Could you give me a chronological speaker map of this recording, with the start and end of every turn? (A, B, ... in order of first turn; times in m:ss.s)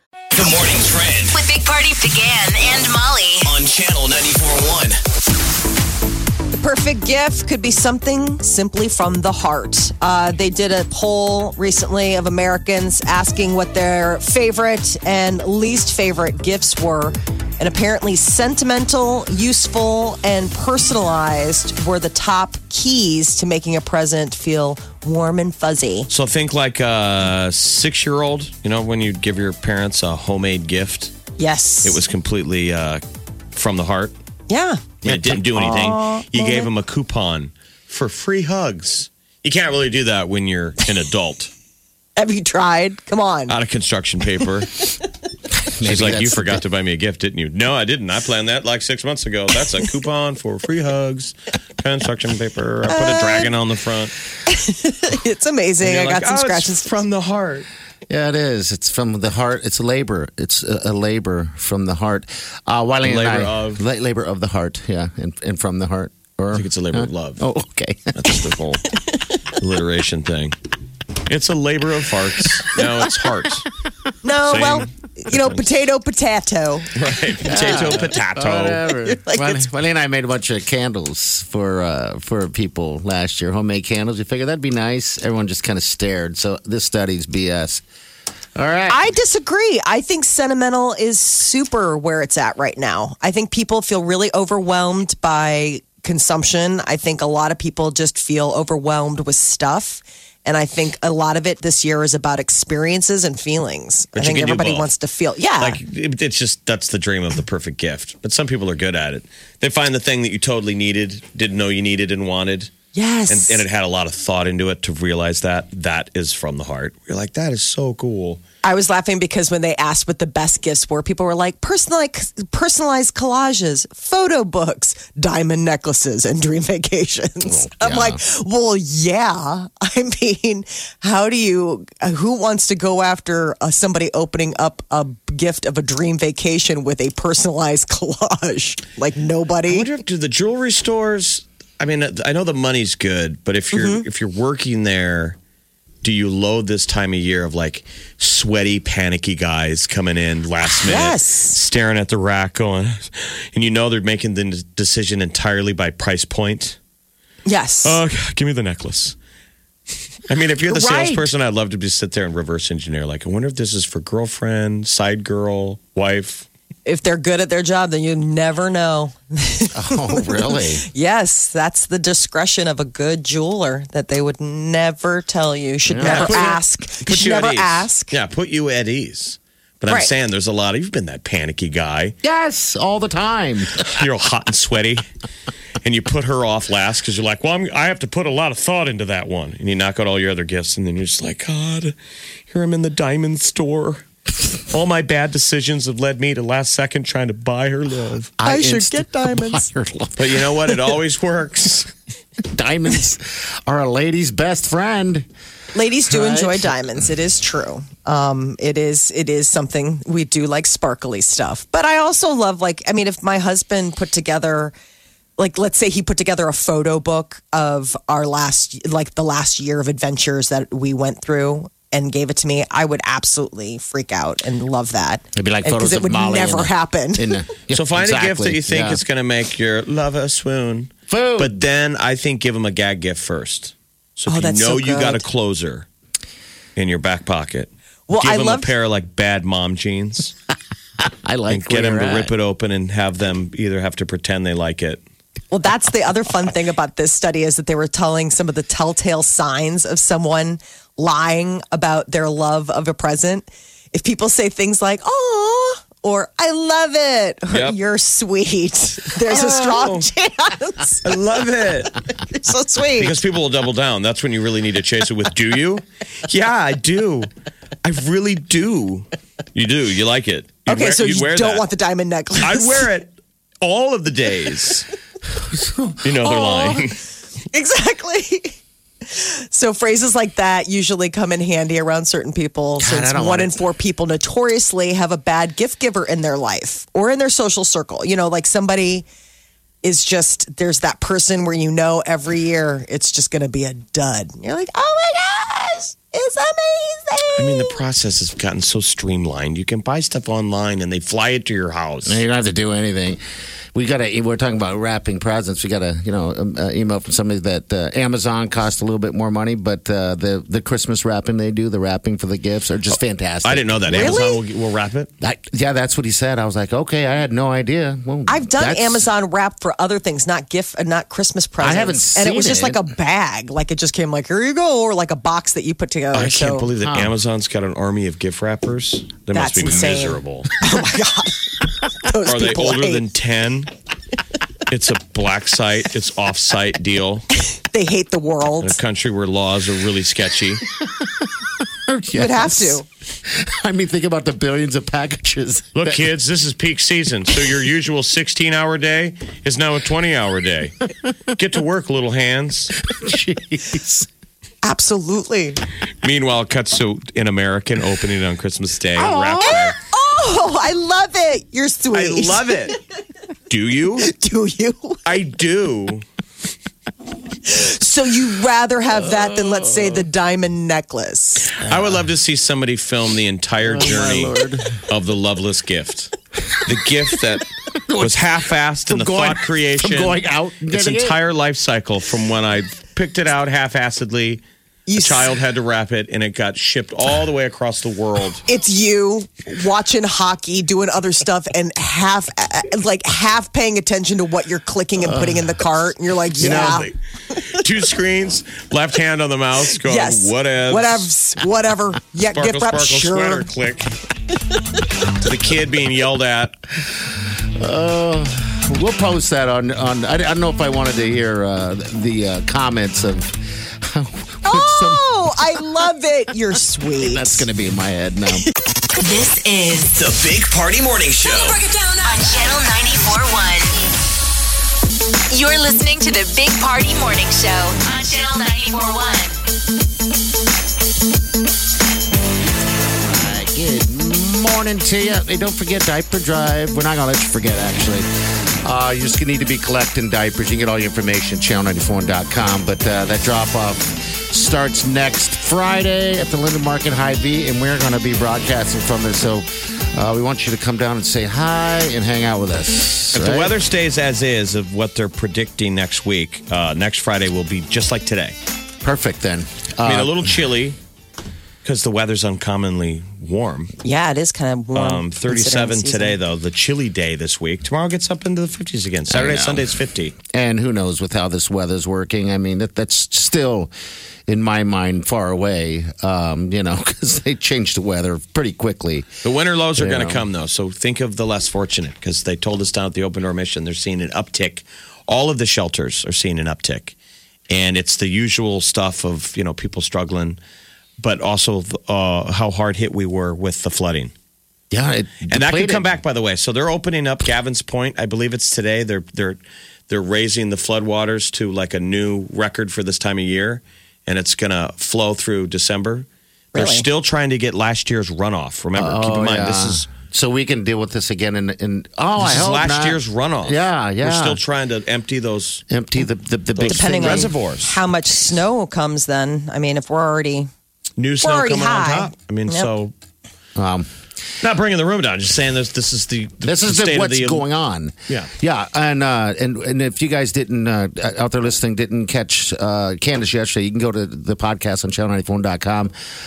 0:00.3-0:01.4 A
0:01.3-0:03.5 B
0:03.4-0:05.0 A
0:06.5-0:26.1 C
0:26.1-0:31.1 D
0:31.4-0:32.0 C
0:31.8-0:33.0 D
0:33.5-0:34.1 D
0:34.5-0:34.8 C
0:35.0-0:35.8 E
0:35.0-0:41.5 D
0:35.5-0:36.7 C
0:42.2-0:43.5 C
0:43.5-0:44.8 D
0:45.6-0:46.6 E
0:45.8-0:54.1 D
0:52.9-0:53.5 C
0:54.5-0:57.0 C
0:55.8-0:57.7 D
0:58.1-1:08.3 E
1:03.0-1:03.8 D
1:06.5-1:07.4 D
1:08.1-1:09.0 D
1:09.5-1:10.6 D
1:11.3-1:13.7 D
1:12.8-1:13.3 E
1:14.2-1:16.9 C
1:14.5-1:15.6 D
1:16.9-1:18.8 D
1:17.4-1:27.8 E
1:19.0-1:19.6 C
1:28.6-1:29.1 E
1:28.9-1:45.8 C
1:44.1-1:44.9 D
1:45.6-1:52.7 D
1:52.9-1:53.6 C
1:53.3-1:58.4 D
1:58.6-2:19.9 C
2:07.4-2:08.2 E
2:19.7-2:25.4 D
2:23.7-2:24.0 C
2:26.0-2:36.8 D
2:30.6-2:31.6 C
2:37.4-2:38.0 C
2:37.8-2:39.2 D
2:40.3-2:46.4 D
2:40.7-2:41.3 C
2:46.8-2:58.2 C
2:49.7-2:50.8 E
2:55.8-2:56.4 E
2:56.0-3:02.1 D
3:02.2-3:03.8 E
3:03.8-3:05.0 D
3:05.8-3:12.0 D
3:12.5-3:14.0 D
3:14.5-3:18.3 D
3:18.4-3:20.9 E
3:18.4-3:19.6 C
3:20.2-3:21.9 D
3:22.4-3:25.3 E
3:25.7-3:34.7 C
3:26.1-3:26.8 E
3:35.4-3:47.3 C
3:45.3-3:49.0 E
3:47.7-3:55.9 D
3:51.1-3:51.6 E
3:54.3-3:55.3 C
3:56.8-4:00.3 D
3:58.1-3:58.7 C
4:01.0-4:02.3 E
4:01.5-4:05.0 D
4:05.5-4:21.1 C
4:17.5-4:17.8 D
4:19.3-4:20.1 D
4:21.0-4:21.9 D
4:22.2-4:23.2 C
4:22.9-4:27.3 D
4:27.8-4:31.7 D
4:30.7-4:32.9 C
4:32.4-4:34.9 D
4:35.3-4:36.8 E
4:36.0-4:37.0 D
4:37.5-4:49.0 C
4:42.8-4:43.6 E
4:49.8-4:57.8 C
4:57.3-5:02.2 D
5:02.0-5:03.2 E
5:03.7-5:14.2 E
5:13.4-5:15.1 D
5:13.9-5:14.4 C
5:15.2-5:19.1 E
5:18.3-5:26.7 C
5:21.6-5:22.8 E
5:26.1-5:30.5 D
5:26.8-5:27.1 E
5:29.3-5:33.0 C
5:32.2-5:33.7 D
5:34.7-5:37.3 D
5:37.4-5:38.8 C
5:38.6-5:40.6 D
5:40.8-5:46.0 E
5:42.1-5:42.8 C
5:45.7-5:52.8 D
5:52.8-5:54.1 E
5:54.6-5:55.6 C
5:56.0-5:59.8 D
5:59.0-5:59.7 E
5:59.4-6:02.8 C
6:01.9-6:02.8 D
6:03.5-6:04.1 D
6:04.0-6:05.0 C
6:05.0-6:06.0 D
6:07.4-6:11.5 C
6:09.1-6:10.0 E
6:11.5-6:16.1 D
6:13.6-6:14.8 E
6:16.6-6:24.4 D
6:17.9-6:18.3 E
6:18.8-6:21.2 E
6:24.9-6:25.3 C
6:25.0-6:28.4 D
6:28.4-6:36.9 C
6:35.0-6:35.5 E
6:36.4-6:36.9 D
6:36.4-6:36.8 E
6:37.5-6:41.1 D
6:39.8-6:43.4 C
6:42.3-6:43.9 D
6:45.2-6:46.6 D
6:47.6-6:55.0 E
6:54.4-6:57.5 C
6:57.0-6:58.4 E
6:59.0-7:00.0 B
6:59.9-7:01.6 A
7:02.0-7:03.7 B
7:05.3-7:09.4 B
7:13.0-7:18.1 E
7:18.6-7:33.5 E
7:33.1-7:38.4 D
7:38.8-7:40.4 E
7:39.8-7:40.8 D
7:41.6-7:43.7 D
7:43.8-7:46.2 C
7:44.7-7:50.2 D
7:49.1-7:49.7 E
7:50.3-7:53.7 E
7:54.3-7:59.1 E
7:59.2-8:06.9 D
7:59.8-8:00.2 E
8:07.5-8:10.4 D
8:11.0-8:14.1 D
8:14.7-8:15.9 E
8:15.3-8:29.9 D
8:26.5-8:26.9 C
8:28.7-8:34.4 E
8:32.2-8:35.6 D
8:35.7-8:37.3 E
8:36.6-8:37.7 D
8:36.7-8:40.5 C
8:41.0-8:42.9 D
8:41.2-8:42.7 C
8:43.6-8:43.9 E
8:44.4-8:47.5 D
8:46.4-8:55.9 E